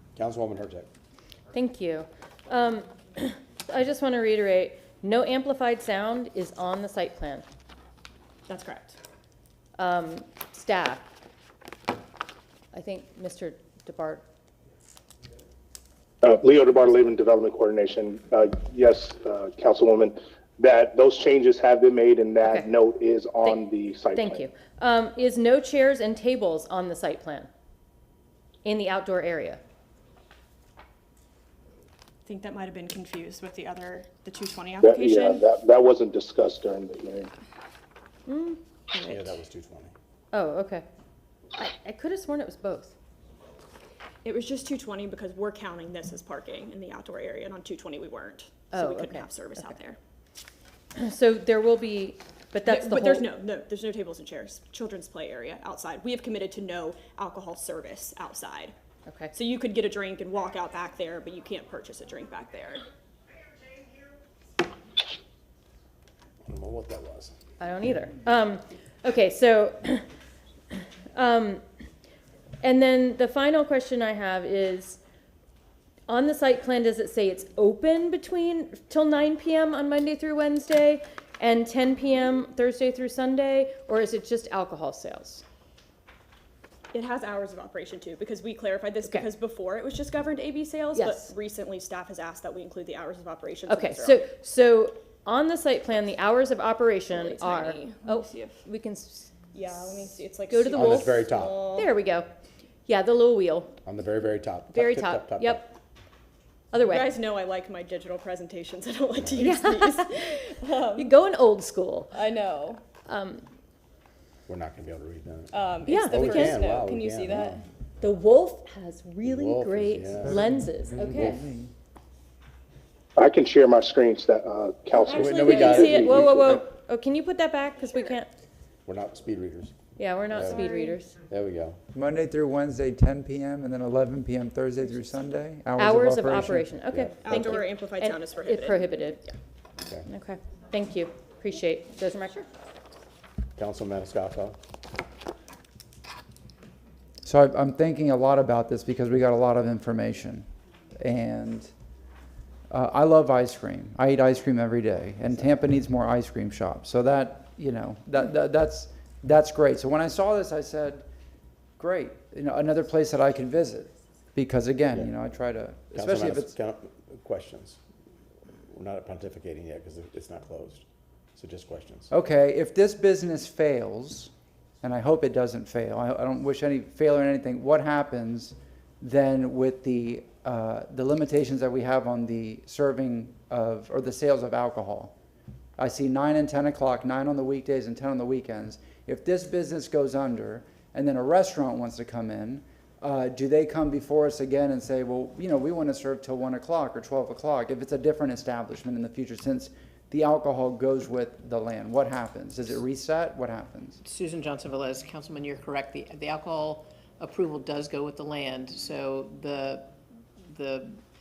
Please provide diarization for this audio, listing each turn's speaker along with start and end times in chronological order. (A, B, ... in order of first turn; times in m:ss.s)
0:00.2-0:00.9 A
0:01.5-0:07.4 B
0:08.5-0:09.0 C
0:09.8-0:11.1 B
0:12.7-0:14.2 B
0:16.2-0:24.5 D
0:22.4-0:22.7 B
0:24.1-0:27.5 B
0:28.6-0:29.6 B
0:32.3-0:35.4 C
0:34.8-0:37.3 D
0:38.3-0:39.3 B
0:39.0-0:39.9 A
0:40.3-0:40.8 B
0:41.6-0:42.9 B
0:44.2-0:50.0 C
0:48.7-0:49.7 B
0:51.0-0:53.3 B
0:52.7-0:58.7 C
0:59.1-0:59.4 B
0:59.3-1:02.8 C
1:06.5-1:07.4 A
1:07.6-1:10.0 B
1:10.7-1:11.6 B
1:12.6-1:15.0 B
1:16.1-1:25.4 B
1:26.9-1:34.2 C
1:30.9-1:31.3 B
1:33.7-1:39.3 B
1:37.1-1:38.6 C
1:39.5-1:41.9 C
1:39.9-1:42.3 B
1:40.7-1:41.6 A
1:42.9-1:43.8 B
1:43.8-1:45.6 A
1:44.7-1:45.7 B
1:46.7-1:47.2 B
1:46.8-1:51.1 C
1:49.4-1:50.1 B
1:51.0-1:52.2 B
1:52.1-1:52.8 C
1:53.1-1:53.4 B
1:54.5-1:57.6 A
1:55.5-1:57.6 C
1:55.8-1:56.5 B
1:58.0-2:01.4 B
1:59.2-2:00.4 A
2:00.9-2:01.7 E
2:03.2-2:06.6 D
2:05.0-2:08.3 B
2:05.1-2:06.5 A
2:08.8-2:09.8 A
2:10.0-2:11.2 B
2:10.3-2:10.7 A
2:10.5-2:11.0 C
2:11.2-2:11.8 A
2:11.9-2:16.7 E
2:15.8-2:19.2 B
2:16.9-2:17.6 A
2:17.2-2:19.4 C
2:20.1-2:22.5 B
2:23.6-2:24.6 A
2:27.2-2:30.5 E
2:31.0-2:31.7 E
2:32.7-2:41.1 E
2:41.8-2:46.5 E
2:46.0-2:47.8 A
2:48.7-2:52.1 A
2:52.1-3:05.2 E
3:05.8-3:24.0 E
3:24.0-3:29.9 F
3:30.5-3:31.0 F